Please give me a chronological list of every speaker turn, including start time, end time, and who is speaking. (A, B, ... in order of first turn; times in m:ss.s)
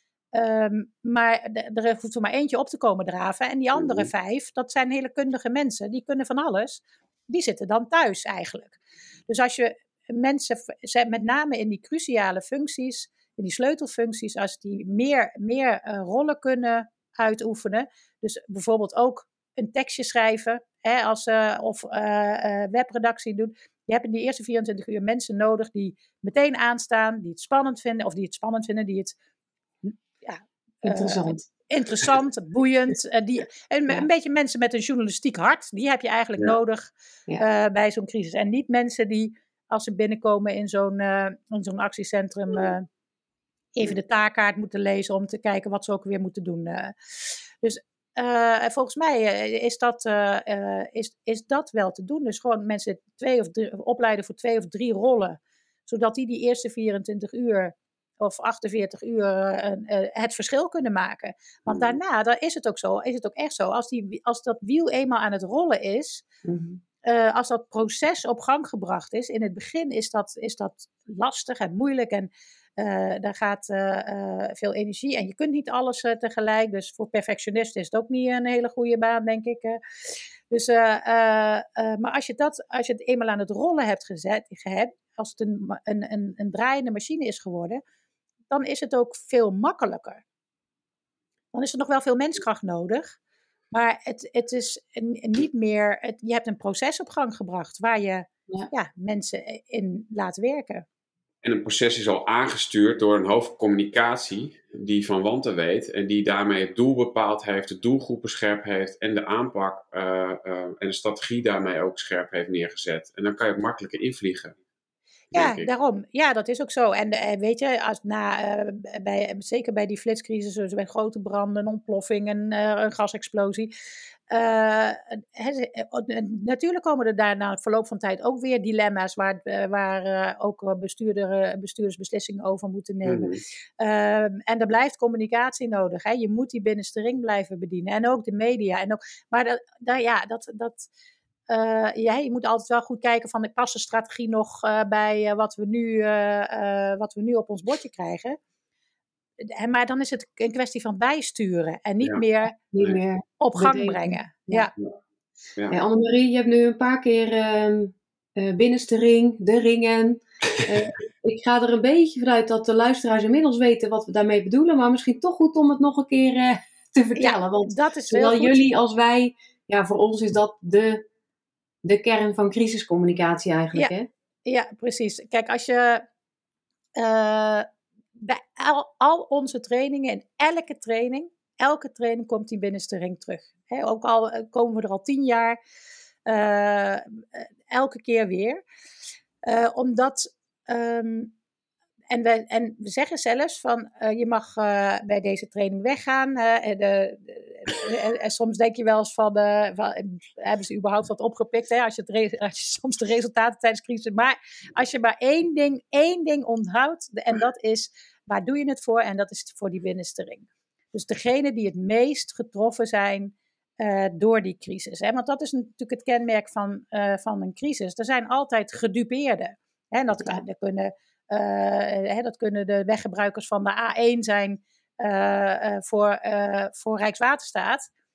0:00.3-0:29.2 A
0:03.7-0:04.1 B
0:29.8-0:42.9 A
0:30.8-0:31.4 C
0:43.7-0:46.9 A
0:47.6-1:06.2 A
1:01.6-1:02.0 B
1:06.4-1:06.8 C
1:07.0-1:19.8 A
1:20.5-1:27.8 A
1:28.5-1:30.2 A
1:31.5-1:33.2 A
1:33.7-1:40.8 A
1:41.4-1:54.6 B
1:55.3-1:55.7 B
1:55.3-2:03.7 A
2:04.3-2:20.9 A
2:13.0-2:13.4 B
2:21.5-2:28.4 A
2:29.4-2:32.6 A
2:32.7-2:34.7 C
2:33.4-2:34.7 A
2:35.7-2:51.0 C
2:47.2-2:48.5 A
2:51.8-2:54.1 C
2:54.4-2:56.0 A
2:57.0-3:05.6 A
3:06.2-3:08.6 A
3:09.4-3:11.3 A
3:12.1-3:47.9 A